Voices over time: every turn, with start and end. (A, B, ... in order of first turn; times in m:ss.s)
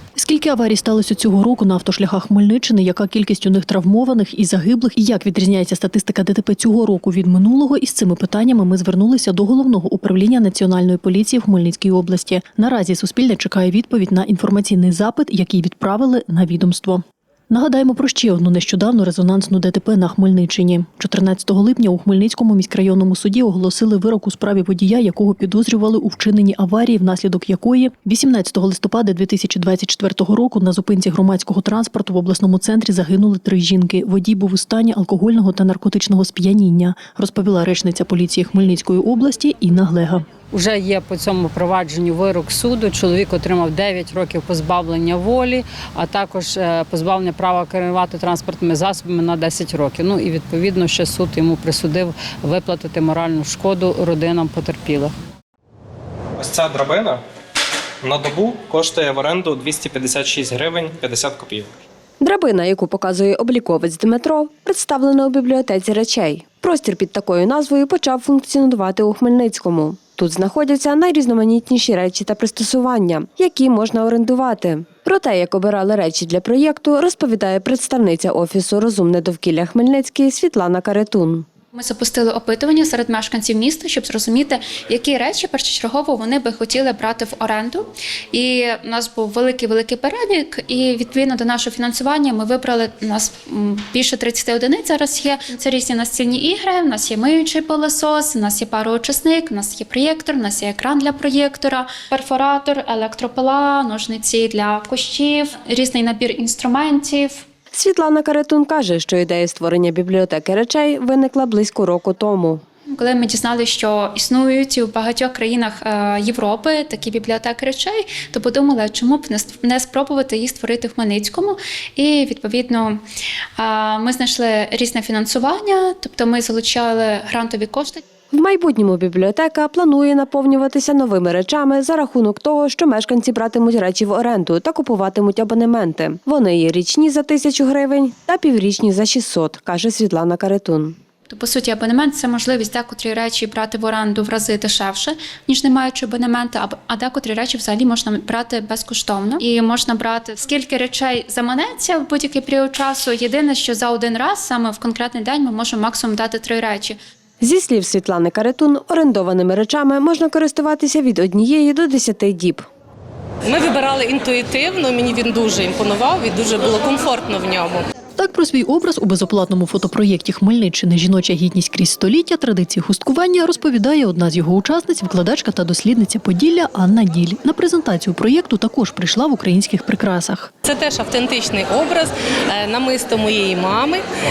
0:00.2-0:40.3 A
0:40.5-0:55.1 B
0:56.4-0:57.2 C
0:58.0-1:01.7 C
1:02.2-1:21.5 D
1:21.7-1:47.4 E
1:47.7-1:52.6 D
1:52.9-2:03.0 E
2:03.6-2:08.0 E
2:08.3-2:21.0 D
2:21.3-2:37.0 E
2:37.4-2:42.6 D
2:43.5-2:47.8 F
2:48.2-3:00.5 A
3:00.6-3:04.0 F